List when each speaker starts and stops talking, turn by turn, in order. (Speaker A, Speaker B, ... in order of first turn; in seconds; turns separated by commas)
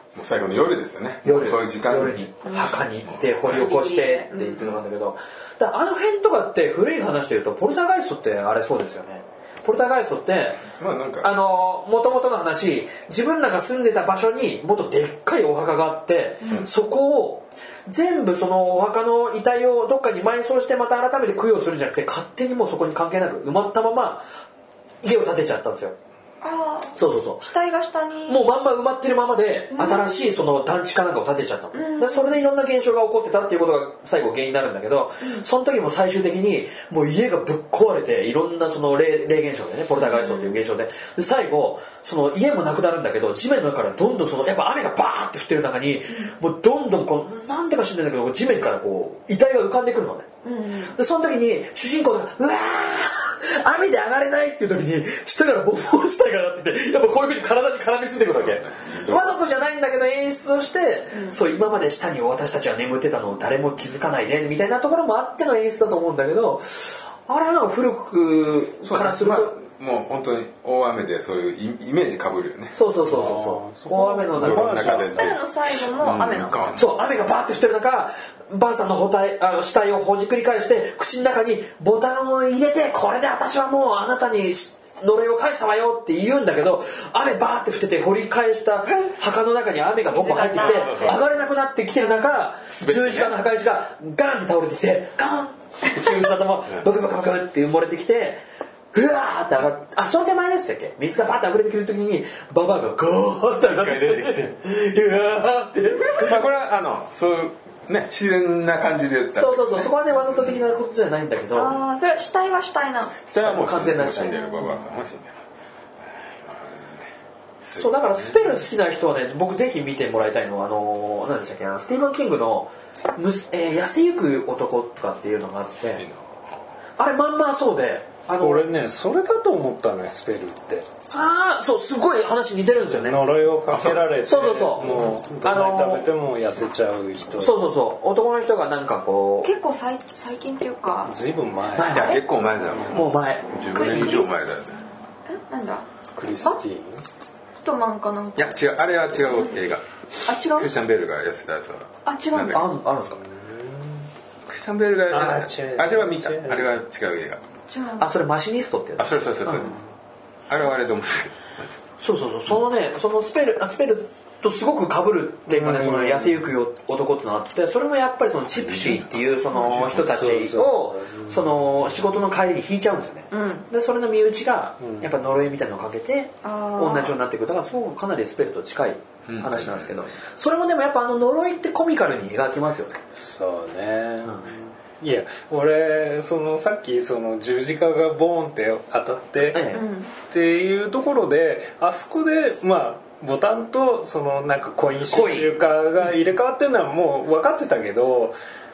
Speaker A: 0.1-3.7, Speaker B: 1.2-10.7, Speaker C: 2.4-2.8, Speaker C: 3.4-4.8, Speaker A: 10.6-11.3, Speaker B: 11.2-24.2, Speaker B: 25.0-25.9, Speaker C: 26.4-28.4, Speaker B: 27.0-27.5, Speaker B: 28.3-50.3, Speaker C: 29.7-30.3, Speaker C: 31.7-32.4, Speaker C: 35.2-35.5, Speaker C: 40.0-40.6, Speaker C: 50.4-51.0, Speaker B: 50.9-69.6, Speaker A: 58.3-59.4, Speaker A: 68.8-72.7, Speaker B: 72.7-75.0, Speaker D: 73.0-75.3, Speaker A: 74.3-76.9, Speaker C: 75.0-76.8, Speaker B: 76.8-98.4, Speaker C: 90.1-91.2, Speaker A: 90.6-91.2, Speaker A: 92.8-93.4, Speaker B: 98.9-106.4, Speaker A: 103.7-104.5, Speaker A: 106.2-110.6, Speaker B: 109.3-111.8, Speaker C: 111.5-113.2, Speaker A: 113.2-115.4, Speaker B: 113.3-114.7, Speaker C: 114.1-114.9, Speaker A: 116.0-117.1, Speaker A: 117.6-118.4, Speaker B: 117.8-126.0, Speaker A: 125.9-126.6, Speaker B: 127.0-128.7, Speaker D: 128.4-130.9, Speaker B: 131.1-133.2, Speaker D: 132.9-137.6, Speaker A: 133.7-134.1, Speaker B: 134.3-136.1, Speaker B: 137.4-139.5, Speaker C: 139.4-141.2, Speaker D: 141.1-142.1, Speaker B: 141.7-142.2, Speaker A: 141.9-144.8, Speaker B: 142.9-144.1, Speaker C: 143.7-144.4, Speaker C: 145.3-145.9, Speaker D: 146.1-147.1, Speaker C: 147.6-148.6, Speaker A: 148.4-149.8, Speaker C: 150.3-150.7, Speaker A: 150.4-152.7, Speaker C: 152.1-152.7, Speaker B: 152.5-153.2, Speaker D: 153.2-154.1, Speaker A: 154.5-157.4, Speaker D: 155.1-156.8, Speaker C: 157.7-158.1, Speaker B: 158.0-159.7, Speaker A: 159.0-159.8, Speaker A: 160.5-161.8, Speaker B: 162.0-183.0, Speaker D: 165.5-166.5, Speaker A: 168.6-169.1, Speaker C: 169.5-169.8, Speaker D: 169.6-171.6, Speaker C: 173.3-173.7, Speaker D: 174.8-175.1, Speaker C: 176.4-177.2, Speaker A: 179.3-180.1, Speaker D: 183.1-189.7, Speaker B: 184.2-184.5, Speaker B: 189.5-189.9, Speaker C: 189.7-190.1, Speaker D: 190.3-198.3, Speaker B: 195.1-195.6